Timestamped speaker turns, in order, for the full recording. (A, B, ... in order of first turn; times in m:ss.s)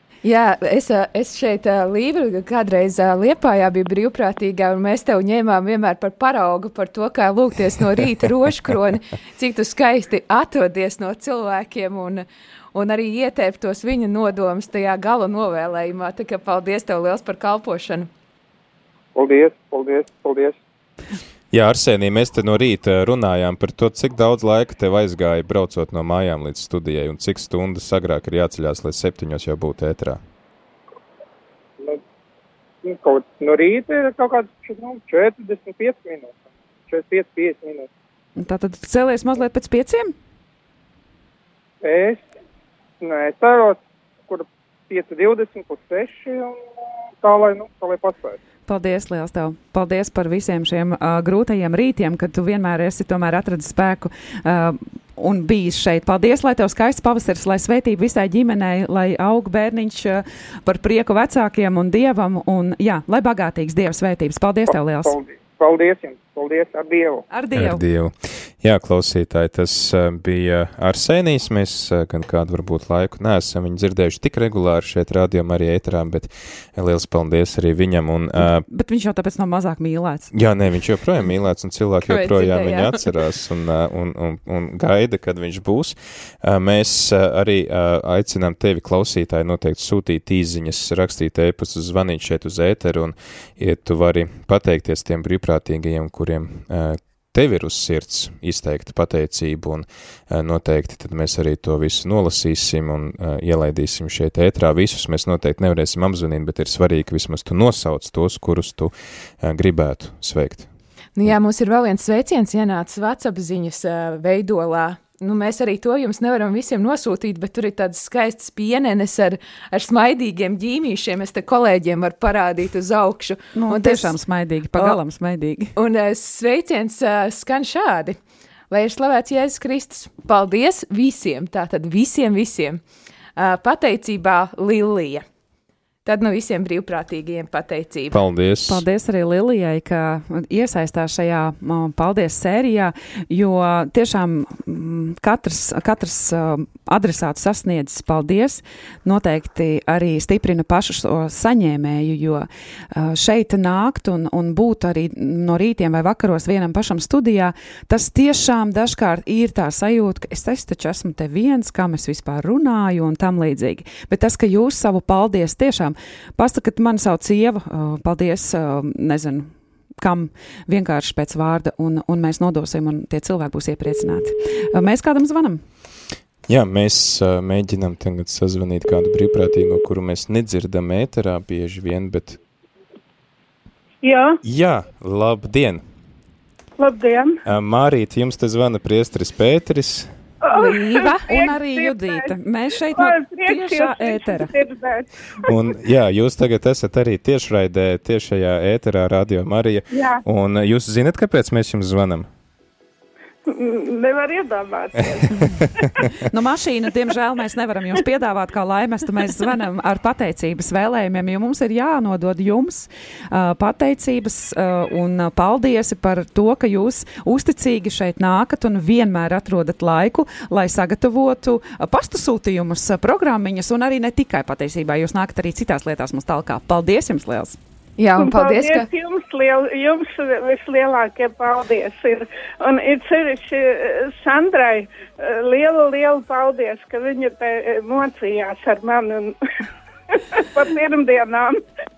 0:00.2-0:18.1 A
0:19.2-0:20.6 B
0:21.5-0:30.2 C
0:32.8-0:37.9 B
0:38.4-0:40.1 D
0:41.8-0:42.3 B
0:43.0-0:46.6 B
0:47.2-0:48.4 B
0:48.7-1:05.2 D
1:05.0-1:07.2 B
1:07.3-1:07.8 D
1:07.5-1:18.6 C
1:18.4-1:20.3 D
1:20.3-1:50.7 C
1:22.0-1:23.0 A
1:51.2-2:04.2 A
2:03.6-2:05.8 D
2:05.8-2:08.2 A
2:08.7-2:12.8 A
2:13.4-2:15.2 A
2:16.0-2:18.2 A
2:18.1-2:18.8 C
2:18.7-2:55.6 D
2:56.5-3:02.4 C
3:04.0-3:04.4 E
3:04.4-3:05.8 C
3:06.8-3:07.4 E
3:07.5-3:10.1 C
3:10.5-3:12.4 E
3:10.5-3:14.5 D
3:12.9-3:15.7 E
3:15.5-3:22.3 C
3:19.9-3:20.2 E
3:23.5-3:26.0 E
3:26.3-3:47.6 D
3:48.0-3:48.9 A
3:48.2-3:59.4 E
4:00.2-4:01.6 E